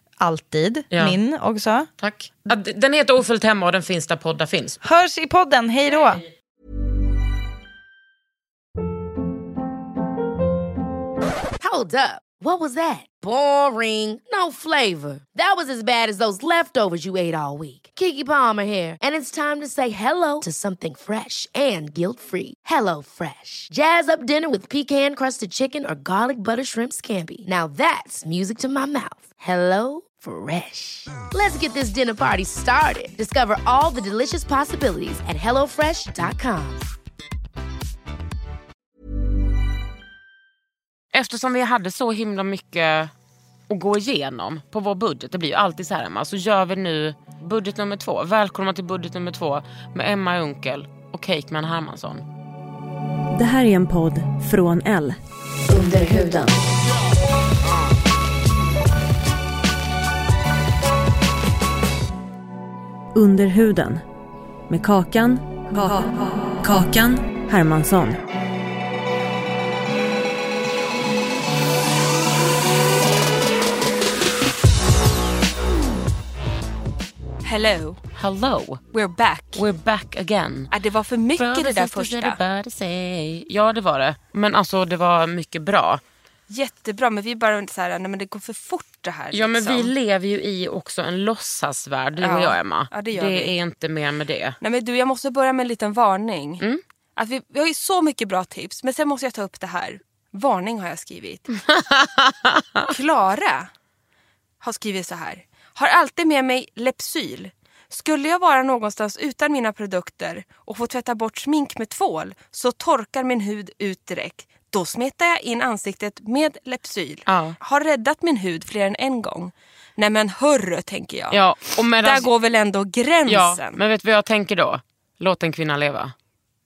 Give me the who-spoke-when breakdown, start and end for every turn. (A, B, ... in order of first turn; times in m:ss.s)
0:00.2-0:01.9 A
0:00.9-0:01.2 B
0:02.0-0:04.8 B
0:04.8-0:06.2 A
0:11.6-0:36.9 C
0:41.1-0:43.1 B
0:43.7-0:52.2 B
0:53.3-0:55.2 D
0:55.7-0:56.6 D
1:03.1-1:04.0 D
1:04.7-1:08.2 D
1:17.4-1:18.0 E
1:18.2-1:18.8 B
1:18.9-1:19.6 E
1:19.5-1:20.7 B
1:20.7-1:22.4 E
1:21.4-1:26.0 B
1:26.5-1:29.9 E
1:29.3-1:34.6 B
1:32.2-1:33.5 E
1:34.6-1:36.6 E
1:37.2-1:41.5 E
1:41.5-1:42.9 B
1:42.9-1:43.7 E
1:44.6-2:01.4 E
1:57.3-1:57.6 B
2:01.3-2:02.3 B
2:02.0-2:03.8 E
2:03.2-2:06.1 B